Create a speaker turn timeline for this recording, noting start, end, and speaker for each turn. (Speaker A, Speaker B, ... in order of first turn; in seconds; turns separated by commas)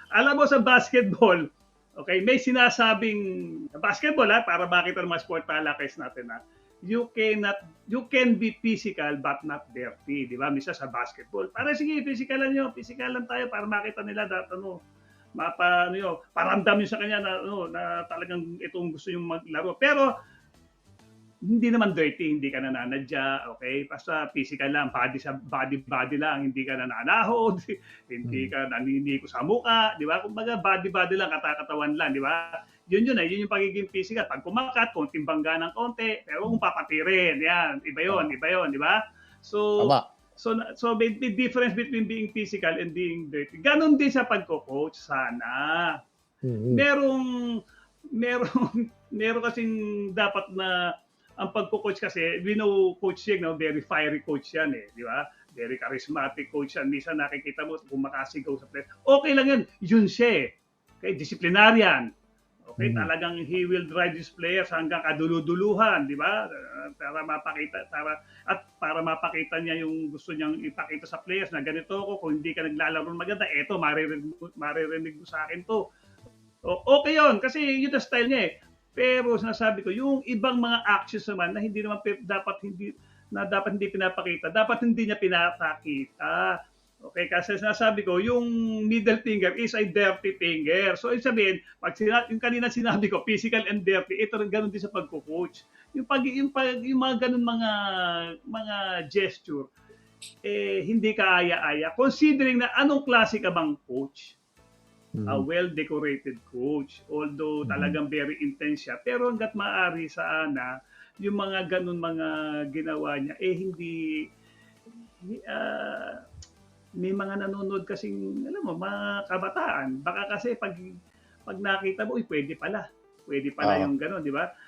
Speaker A: 0.1-1.4, Speaker A: 2.0-14.8, Speaker A: 15.4-20.1, Speaker A: 21.5-39.8, Speaker B: 28.2-28.5, Speaker B: 39.8-40.0, Speaker A: 40.4-46.0, Speaker B: 46.4-46.8, Speaker A: 46.7-47.6, Speaker A: 48.1-62.0, Speaker A: 62.7-75.8, Speaker B: 62.8-63.1, Speaker A: 76.7-99.7, Speaker A: 100.4-104.4, Speaker B: 105.1-105.5, Speaker A: 105.2-110.7, Speaker B: 107.6-108.0, Speaker A: 111.2-114.0, Speaker A: 115.2-116.2, Speaker A: 117.0-120.9, Speaker A: 121.5-124.5, Speaker B: 123.6-123.9